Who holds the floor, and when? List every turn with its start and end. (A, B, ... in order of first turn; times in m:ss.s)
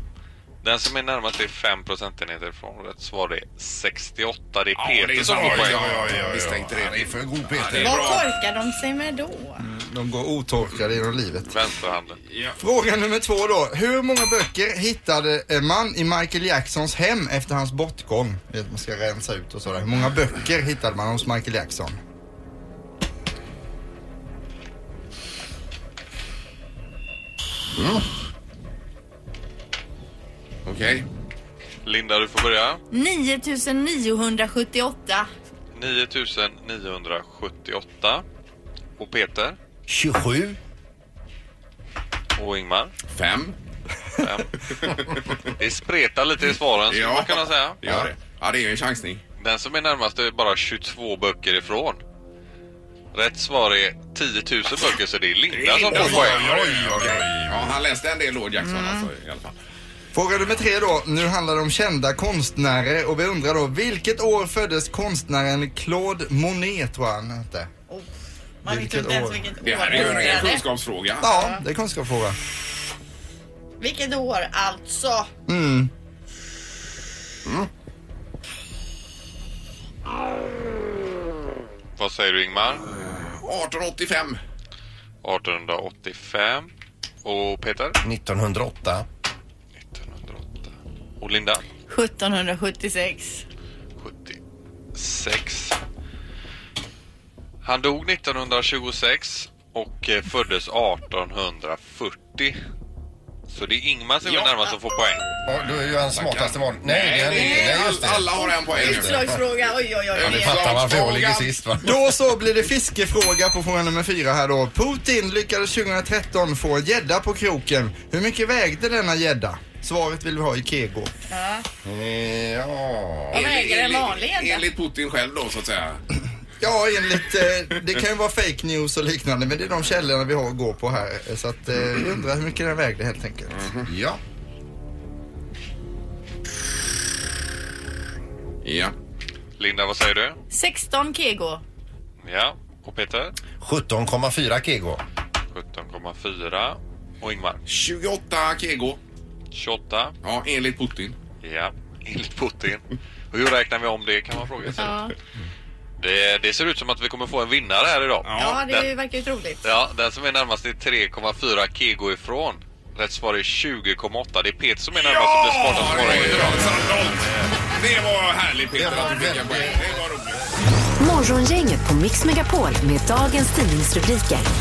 0:00.6-0:06.1 A
0:04.8-0:08.3 B
0:05.3-0:08.1 C
0:07.8-0:09.6 D
0:09.6-0:11.5 E
0:11.5-0:12.2 A
0:12.3-0:12.6 B
0:12.6-0:22.0 E
0:30.6-0:31.0 B
0:31.8-0:32.8 A
0:32.9-0:35.3 D
0:35.7-0:38.2 A
0:39.0-0:39.6 A
0:39.9-0:40.6 C
0:42.4-0:42.9 A
0:43.1-0:43.5 B
0:44.2-0:44.6 A
0:44.8-0:45.2 B
0:45.3-0:48.0 A
0:46.9-0:49.2 B
0:49.4-0:52.0 A
0:53.1-0:56.7 A
0:55.5-0:59.5 B
0:55.9-0:57.7 C
0:58.6-0:59.0 D
1:00.1-1:07.7 E
1:08.6-1:10.6 D
1:08.7-1:10.3 E
1:09.6-1:11.3 B
1:11.2-1:12.4 E
1:11.2-1:11.6 D
1:13.8-1:15.3 D
1:15.5-1:15.9 E
1:22.0-1:22.8 A
1:23.4-1:24.4 B
1:25.2-1:26.7 A
1:27.2-1:28.0 A
1:28.0-1:29.0 C
1:29.8-1:31.6 A
1:31.9-1:33.4 D
1:34.0-1:34.4 A
1:34.9-1:35.8 A
1:37.6-1:42.6 A
1:43.5-1:45.2 A
1:44.2-1:44.5 B
1:45.5-1:49.4 C
1:46.1-1:49.4 B
1:47.3-1:47.8 D
1:48.4-1:50.7 D
1:50.1-1:51.6 B
1:50.2-1:51.9 C
1:51.8-2:01.1 E
2:01.3-2:01.6 D
2:01.8-2:03.4 C
2:03.3-2:06.0 B
2:03.3-2:04.6 D
2:06.6-2:13.6 E
2:13.6-2:13.9 B
2:13.9-2:14.2 C
2:18.6-2:18.9 B
2:19.6-2:20.4 A
2:20.5-2:21.6 D
2:22.2-2:23.3 A
2:23.6-2:25.0 C
2:25.5-2:27.6 A
2:27.7-2:29.0 B
2:29.5-2:30.1 A
2:30.2-2:31.2 B
2:31.4-2:35.1 A
2:34.8-2:35.1 D
2:36.0-2:38.9 A
2:38.2-2:38.6 B
2:38.3-2:39.6 D
2:39.6-2:47.5 A
2:44.9-2:50.5 B
2:48.7-2:50.0 C
2:51.0-2:54.5 F